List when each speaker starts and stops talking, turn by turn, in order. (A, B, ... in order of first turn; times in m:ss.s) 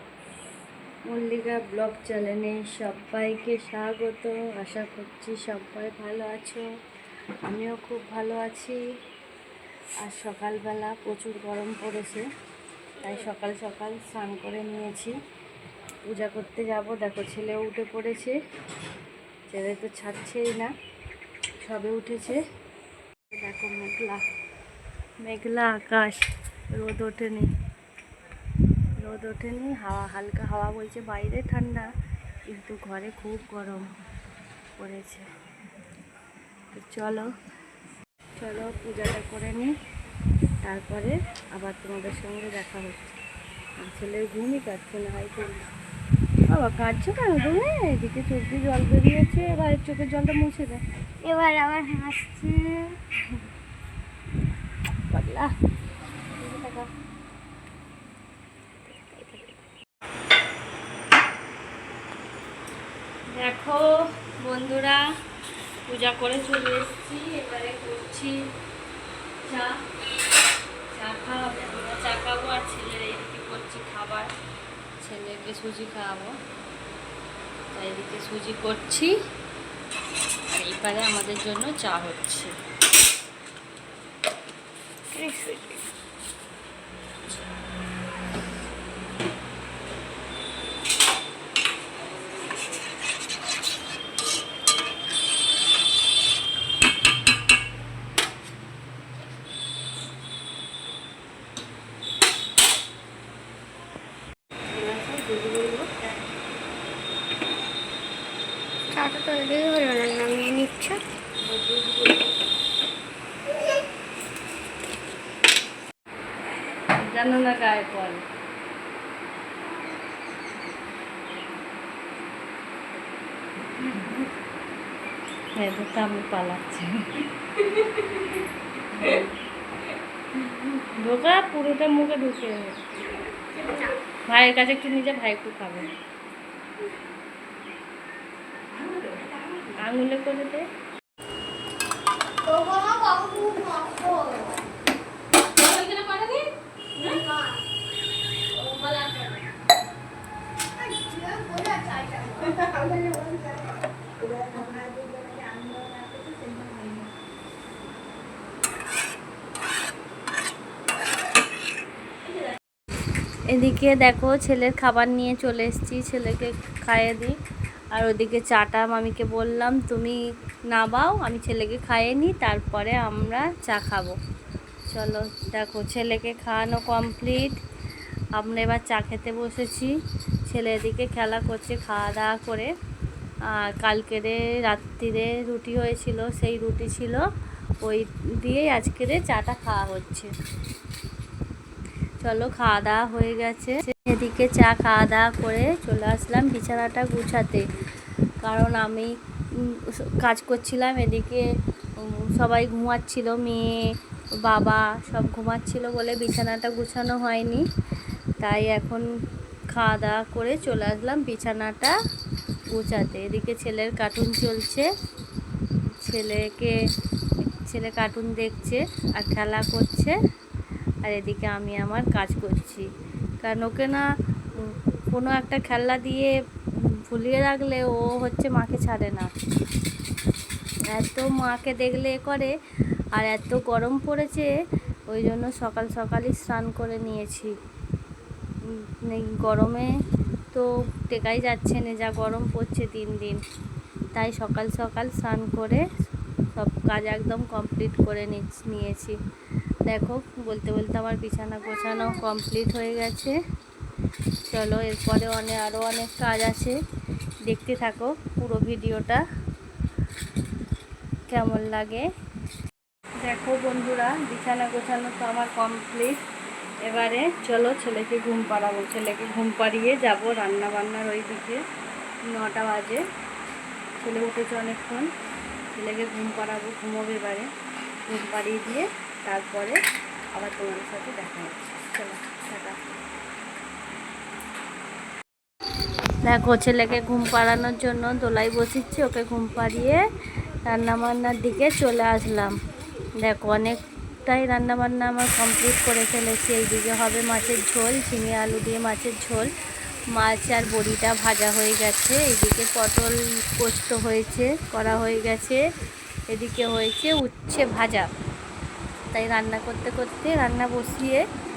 0:01.1-0:06.7 A
0:07.4-0:08.8 A
0:10.0-0:12.2 A
0:13.0-0:15.2 A
0:16.0-0:18.4 A
0:19.5-0:20.7 A
0:21.6-0:22.4 A
0:23.3-0:24.2 A
0:25.2-0:27.5 A
0:29.0-0:31.9 A
0:32.5-0:33.8 A
0:34.8-0:35.3 A
0:36.7-0:37.3 A
0:38.4-0:39.7 A
0:40.6-0:43.2 A
0:43.8-0:45.7 A
0:46.5-0:50.8 A
0:51.2-0:53.0 B
0:55.1-0:55.5 A
0:56.4-0:56.9 A
0:59.1-0:59.5 A
1:03.3-1:05.0 A
1:05.9-1:08.4 A
1:09.4-1:09.8 A
1:10.9-1:14.3 A
1:15.0-1:16.4 A
1:17.7-1:19.1 A
1:20.5-1:22.5 A
1:25.1-1:25.9 B
1:44.7-1:46.1 A
1:48.9-1:51.0 B
1:51.4-1:52.3 A
1:56.9-1:58.2 A
2:05.6-2:08.4 A
2:08.9-2:09.3 A
2:10.4-2:12.8 A
2:13.5-2:14.0 B
2:14.3-2:15.9 A
2:19.7-2:20.6 A
2:22.4-2:24.6 B
2:25.6-2:26.4 A
2:27.0-2:27.5 B
2:28.6-2:29.3 A
2:30.8-2:33.6 B
2:34.2-2:37.0 B
2:43.5-2:47.4 A
2:47.9-2:54.2 A
2:54.9-2:57.6 A
2:58.4-2:59.9 A
3:00.4-3:02.7 A
3:03.5-3:07.2 A
3:07.8-3:10.3 A
3:12.2-3:17.6 A
3:18.4-3:21.4 A
3:22.0-3:23.9 A
3:24.4-3:27.6 A
3:28.4-3:29.1 A
3:29.7-3:32.0 A
3:32.7-3:34.9 A
3:36.0-3:36.8 A
3:37.4-3:40.1 A
3:41.0-3:42.9 A
3:43.4-3:46.3 A
3:47.1-3:49.3 A
3:50.9-3:52.5 A
3:53.2-3:54.5 A
3:55.1-3:57.5 A
3:58.6-3:59.9 A
4:00.5-4:03.4 A
4:04.1-4:05.8 A
4:06.6-4:09.2 A
4:09.9-4:13.3 A
4:14.5-4:16.8 A
4:17.5-4:19.2 A
4:21.3-4:22.1 A
4:23.2-4:26.2 A
4:26.8-4:31.6 A
4:32.3-4:33.0 A
4:34.0-4:35.1 A
4:35.7-4:37.5 A
4:38.1-4:39.8 A
4:40.4-4:42.9 A
4:46.2-4:50.0 A
4:50.6-4:52.6 A
4:53.2-4:59.5 A
5:00.1-5:05.6 A
5:06.3-5:08.1 A
5:09.1-5:11.2 A